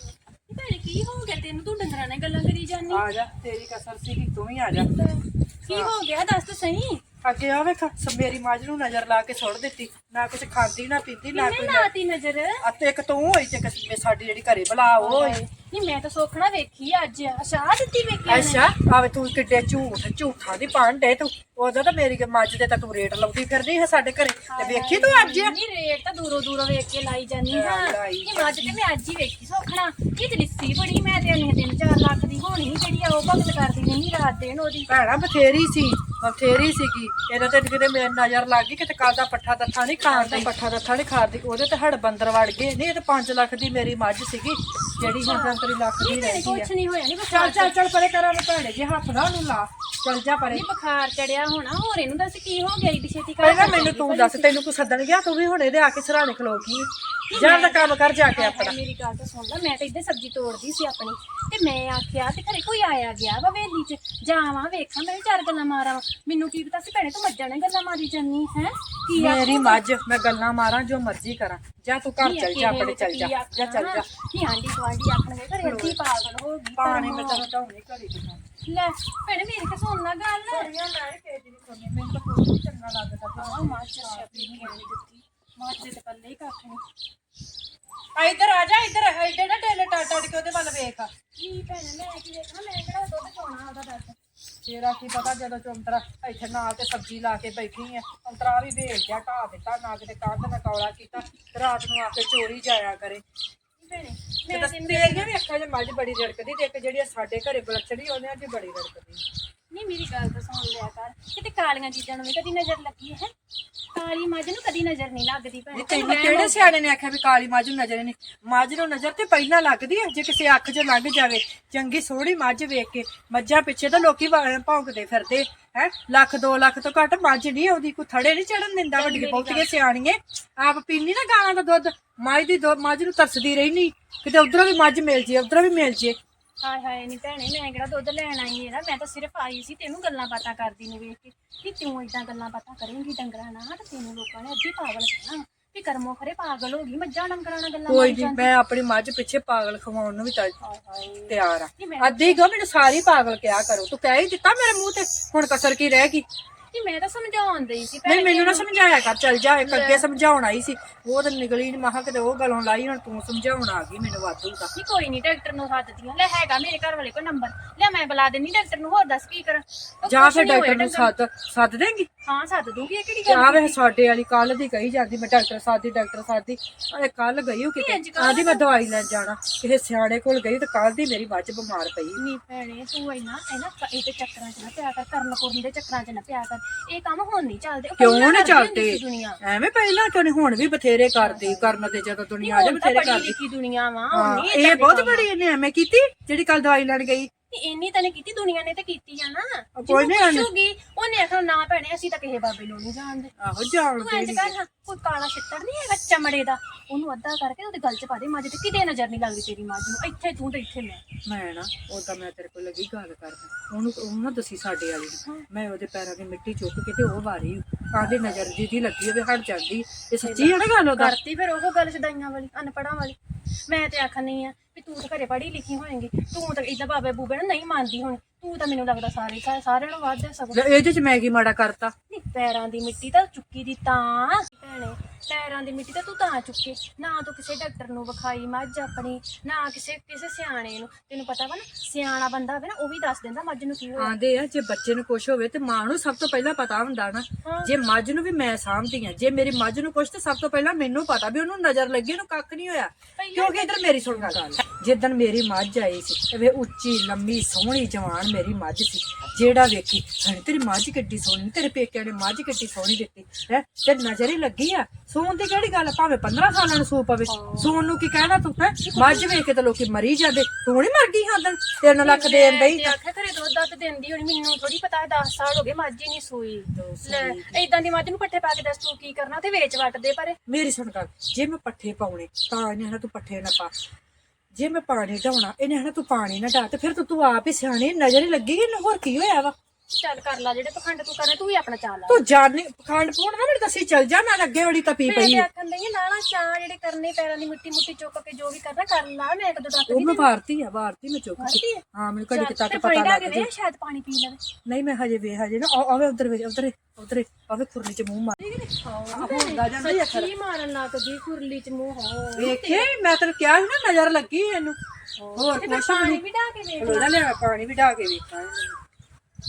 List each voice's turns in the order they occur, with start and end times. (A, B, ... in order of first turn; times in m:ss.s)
0:00.5-0:03.0 A
0:02.9-0:04.9 B
0:04.7-0:07.0 A
0:05.7-0:05.9 B
0:07.2-0:11.9 B
0:11.3-0:12.6 A
0:12.6-0:15.4 B
0:15.0-0:18.7 A
0:18.3-0:25.5 B
0:24.5-0:34.9 A
0:27.5-0:28.8 B
0:34.9-0:46.7 B
0:40.0-0:40.5 A
0:45.0-0:47.7 A
0:47.3-0:50.6 B
0:50.5-0:54.5 A
0:53.4-0:58.7 B
0:57.3-1:09.8 A
1:09.2-1:14.1 B
1:12.2-1:17.4 A
1:15.6-1:16.0 B
1:16.7-1:18.4 B
1:18.6-1:20.7 A
1:20.5-1:24.8 B
1:23.4-1:26.8 A
1:28.2-1:31.1 B
1:31.4-1:34.2 A
1:34.6-1:43.2 B
1:43.8-1:45.3 A
1:44.5-1:49.2 B
1:49.7-1:53.3 A
1:53.9-1:56.7 A
1:55.7-2:16.2 B
2:09.0-2:09.7 A
2:16.6-2:28.5 A
2:27.9-2:30.6 B
2:30.6-2:32.4 A
2:31.3-2:36.2 B
2:36.7-2:38.7 A
2:38.0-2:44.7 B
2:39.6-2:40.0 A
2:44.7-2:51.1 A
2:50.0-2:52.1 B
2:52.2-2:53.8 A
2:53.3-3:02.2 B
2:57.8-2:58.8 A
3:02.2-3:09.4 A
3:08.0-3:13.4 B
3:11.2-3:15.3 A
3:14.1-3:17.3 B
3:17.5-3:23.3 A
3:19.8-3:20.5 B
3:23.4-3:24.6 B
3:24.0-3:31.0 A
3:31.2-3:41.1 B
3:40.2-3:43.2 A
3:43.7-3:50.6 A
3:50.5-3:51.9 B
3:52.1-4:04.1 A
4:04.0-4:33.0 B
4:07.4-4:07.7 A
4:13.2-4:14.3 A
4:27.3-4:28.0 A
4:28.8-4:29.4 A
4:32.0-4:40.4 A
4:36.7-4:37.6 B
4:40.5-4:43.7 B
4:44.5-4:49.5 B
4:49.9-4:52.2 A
4:52.1-4:55.5 B
4:55.0-5:00.3 A
4:59.9-5:03.5 B
5:01.4-5:04.4 A
5:04.6-5:08.4 B
5:08.4-5:12.9 A
5:09.1-5:10.3 B
5:12.4-5:14.8 B
5:15.2-5:17.1 A
5:15.3-5:16.2 B
5:16.8-5:18.8 B